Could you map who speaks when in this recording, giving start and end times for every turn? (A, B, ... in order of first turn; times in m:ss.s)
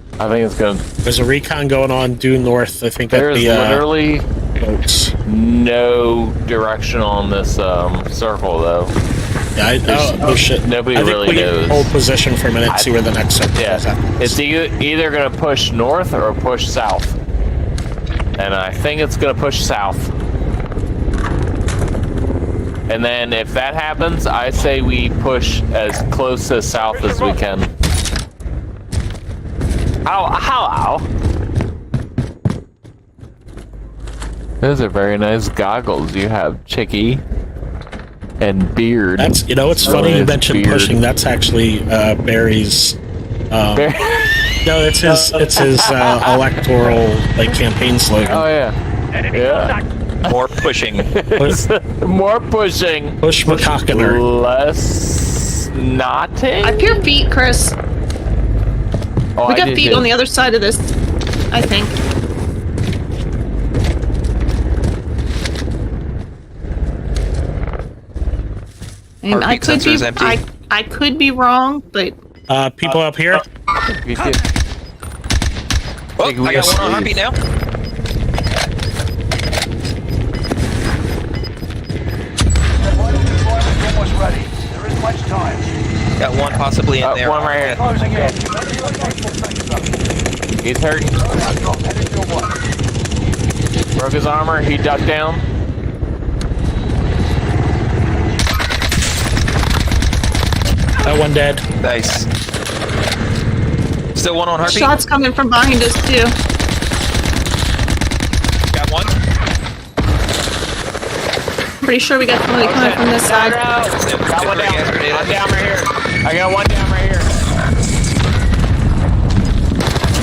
0:00.2-0:00.8 A
0:01.0-0:03.9 B
0:03.1-0:04.3 A
0:04.6-0:05.1 B
0:05.3-0:09.0 A
0:09.6-0:14.4 B
0:09.9-0:11.9 A
0:12.7-0:13.0 A
0:13.6-0:17.2 A
0:18.4-0:20.1 A
0:22.9-0:27.7 A
0:30.0-0:31.1 A
0:34.6-0:37.2 A
0:38.4-0:41.0 A
0:39.2-0:43.0 B
0:43.5-0:43.9 B
0:43.8-0:46.3 A
0:44.6-0:48.5 B
0:48.2-0:48.8 A
0:49.2-0:49.7 C
0:49.3-0:57.0 A
0:50.3-0:51.1 D
0:51.4-0:51.6 B
0:53.2-0:54.2 B
0:56.6-0:57.8 E
0:59.4-1:00.1 A
0:59.5-1:00.9 E
1:01.5-1:02.0 E
1:09.2-1:12.2 E
1:09.3-1:10.4 D
1:12.5-1:13.4 B
1:13.9-1:14.4 A
1:16.2-1:17.4 D
1:16.2-1:17.2 A
1:23.8-1:25.6 C
1:26.2-1:27.8 D
1:27.0-1:27.8 A
1:28.0-1:29.6 C
1:30.6-1:31.2 A
1:31.7-1:32.3 C
1:34.0-1:35.4 A
1:41.0-1:41.6 B
1:41.8-1:42.3 D
1:44.2-1:44.9 D
1:44.6-1:46.4 E
1:48.7-1:49.1 D
1:51.8-1:53.6 E
1:52.6-1:57.3 A
1:54.0-1:55.4 D